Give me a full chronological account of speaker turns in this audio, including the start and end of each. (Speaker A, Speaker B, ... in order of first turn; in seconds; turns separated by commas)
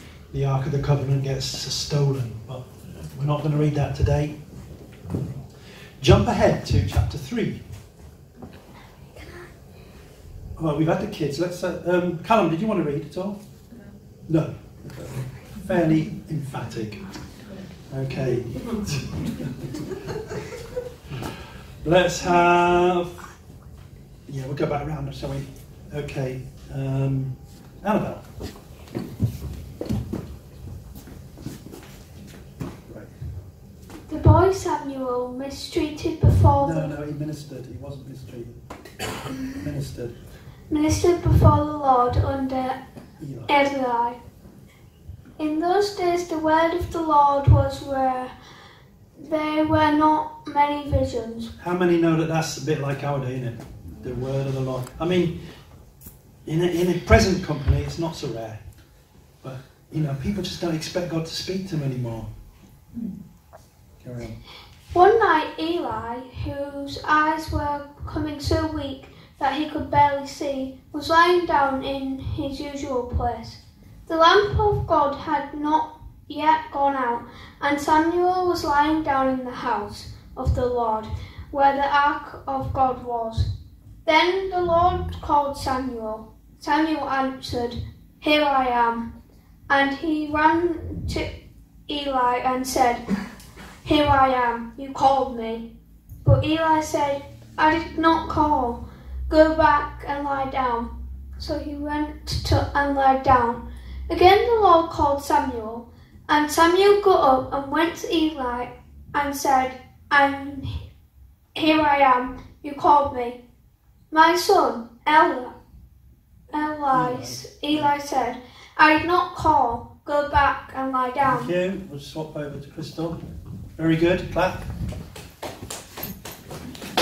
Speaker A: 0.3-4.4, Speaker A: 6.0-7.6, Speaker A: 10.6-13.4, Speaker A: 14.3-17.1, Speaker A: 17.9-19.8, Speaker A: 21.8-23.3, Speaker A: 24.3-28.3, Speaker A: 32.9-33.1, Speaker B: 34.1-37.0, Speaker A: 36.6-38.6, Speaker A: 39.5-40.2, Speaker B: 40.7-42.8, Speaker A: 43.2-43.5, Speaker B: 43.5-44.2, Speaker B: 45.4-48.3, Speaker B: 49.2-51.5, Speaker A: 51.6-55.5, Speaker A: 56.5-58.6, Speaker A: 59.4-62.3, Speaker A: 64.0-64.4, Speaker B: 64.9-83.5, Speaker B: 84.1-89.1, Speaker B: 89.7-91.3, Speaker B: 91.9-93.0, Speaker B: 93.8-95.7, Speaker B: 96.2-110.8, Speaker B: 111.6-113.4, Speaker B: 114.1-115.5, Speaker B: 116.5-121.5, Speaker A: 116.9-117.9, Speaker A: 121.3-123.2, Speaker A: 123.8-124.7